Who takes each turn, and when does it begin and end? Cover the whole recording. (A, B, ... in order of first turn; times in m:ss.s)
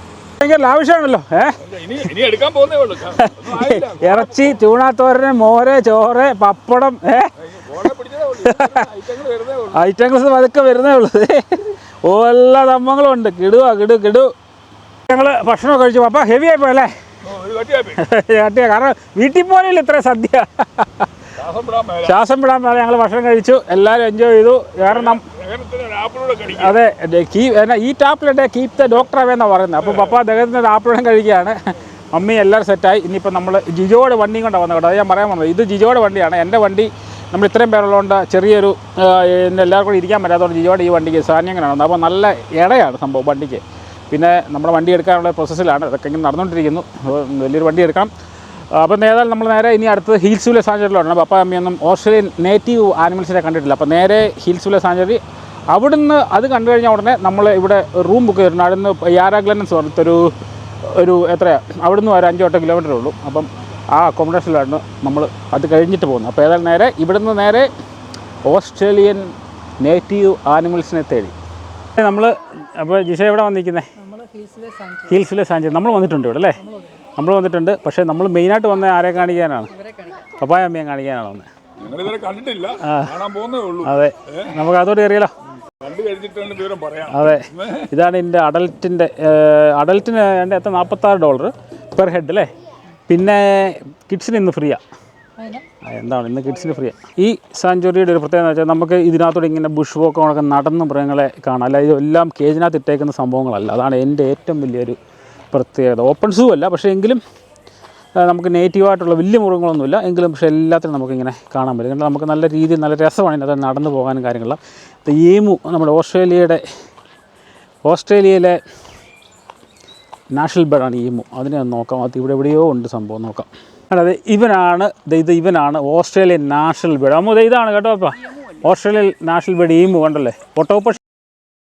0:00.4-0:01.6 A
0:01.6-0:04.6 B
0:03.1-0:07.3 A
0:07.4-0:09.8 B
0:08.4-0:08.8 A
0:09.7-0:14.3 A
0:15.1-0:16.9 A
0:17.2-0:18.0 B
0:18.0-0:21.1 A
0:21.4-0:22.2 B
0:22.0-0:25.2 A
0:24.8-0:26.8 B
0:26.5-0:31.6 A
0:29.8-0:30.1 B
0:32.1-0:48.1 A
0:48.7-1:07.7 A
1:08.4-1:11.4 A
1:12.0-1:13.9 A
1:14.0-1:15.2 C
1:15.1-1:16.6 A
1:16.6-1:16.9 C
1:17.2-1:19.7 A
1:19.7-1:20.2 C
1:20.4-1:21.5 A
1:21.8-1:24.5 B
1:22.8-1:23.1 A
1:23.8-1:25.3 A
1:25.8-1:27.9 B
1:27.1-1:32.5 A
1:33.1-1:34.8 A
1:35.4-1:35.7 C
1:35.8-1:45.0 A
1:45.5-1:47.2 A
1:48.2-1:56.6 A
1:57.8-1:58.6 A
2:00.3-2:11.0 A